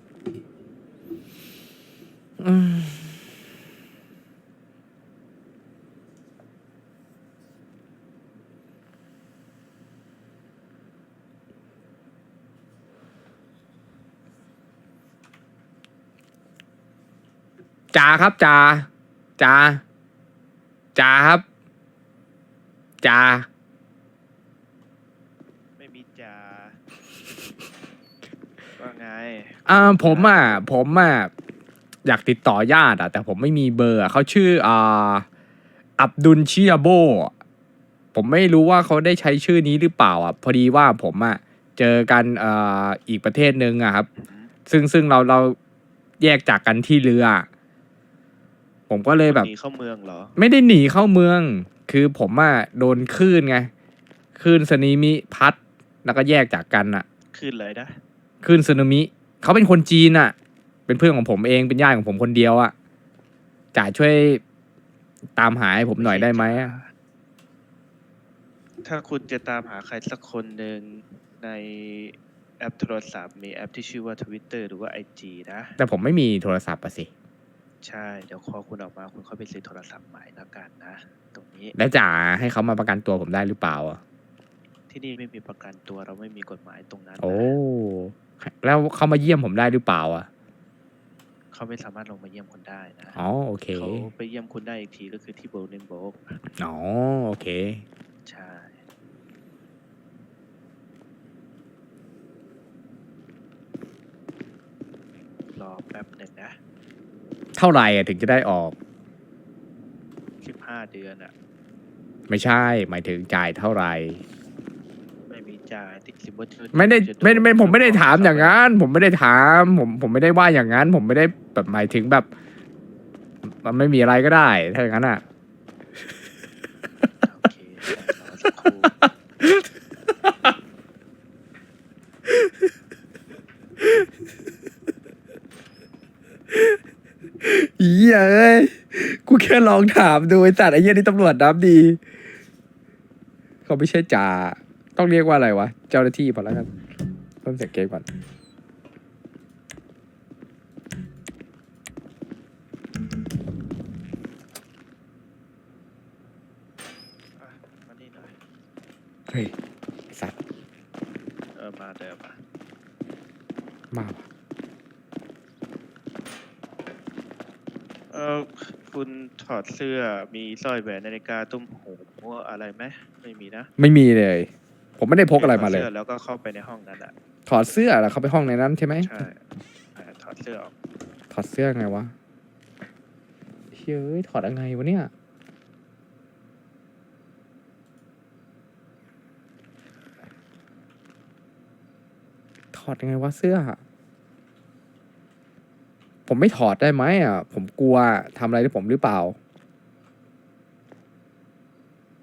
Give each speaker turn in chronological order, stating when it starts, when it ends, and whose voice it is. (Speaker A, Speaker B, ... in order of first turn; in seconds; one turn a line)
Speaker A: 2.4-3.1
Speaker A: 17.9-19.8
Speaker A: 20.9-21.4
Speaker A: 23.0-23.5
Speaker B: 25.8-26.8
Speaker B: 28.8-30.6
Speaker A: 29.7-31.3
Speaker A: 32.0-35.2
Speaker A: 36.0-37.3
Speaker A: 38.1-44.1
Speaker B: 44.2-44.5
Speaker A: 44.7-45.6
Speaker A: 46.2-47.5
Speaker A: 48.9-49.5
Speaker B: 49.2-50.4
Speaker A: 50.4-53.7
Speaker A: 54.4-57.0
Speaker B: 57.3-58.0
Speaker A: 58.4-60.3
Speaker A: 60.9-62.7
Speaker A: 63.7-64.4
Speaker A: 65.4-66.8
Speaker B: 66.0-66.9
Speaker B: 68.8-75.8
Speaker A: 75.8-77.1
Speaker B: 77.8-81.7
Speaker A: 81.7-84.0
Speaker B: 84.9-87.5
Speaker A: 87.2-90.3
Speaker B: 91.5-93.2
Speaker A: 93.2-94.1
Speaker B: 93.7-96.4
Speaker A: 96.6-97.8
Speaker B: 98.2-98.8
Speaker B: 105.5-106.6
Speaker A: 107.5-108.7
Speaker B: 110.4-111.3
Speaker A: 112.3-114.2
Speaker B: 115.3-118.6
Speaker A: 116.7-122.3
Speaker A: 123.4-125.2
Speaker B: 127.2-129.0
Speaker A: 130.2-130.5
Speaker A: 136.5-136.8
Speaker A: 137.4-142.0
Speaker A: 143.7-146.7
Speaker A: 147.4-148.1
Speaker B: 157.4-158.3
Speaker B: 161.6-162.4
Speaker A: 163.9-164.2
Speaker B: 168.1-173.7
Speaker A: 173.8-175.9
Speaker B: 175.3-177.1
Speaker A: 177.5-179.1
Speaker B: 179.0-180.7
Speaker A: 181.3-182.1
Speaker A: 183.7-185.1
Speaker A: 192.7-193.8
Speaker A: 196.3-199.3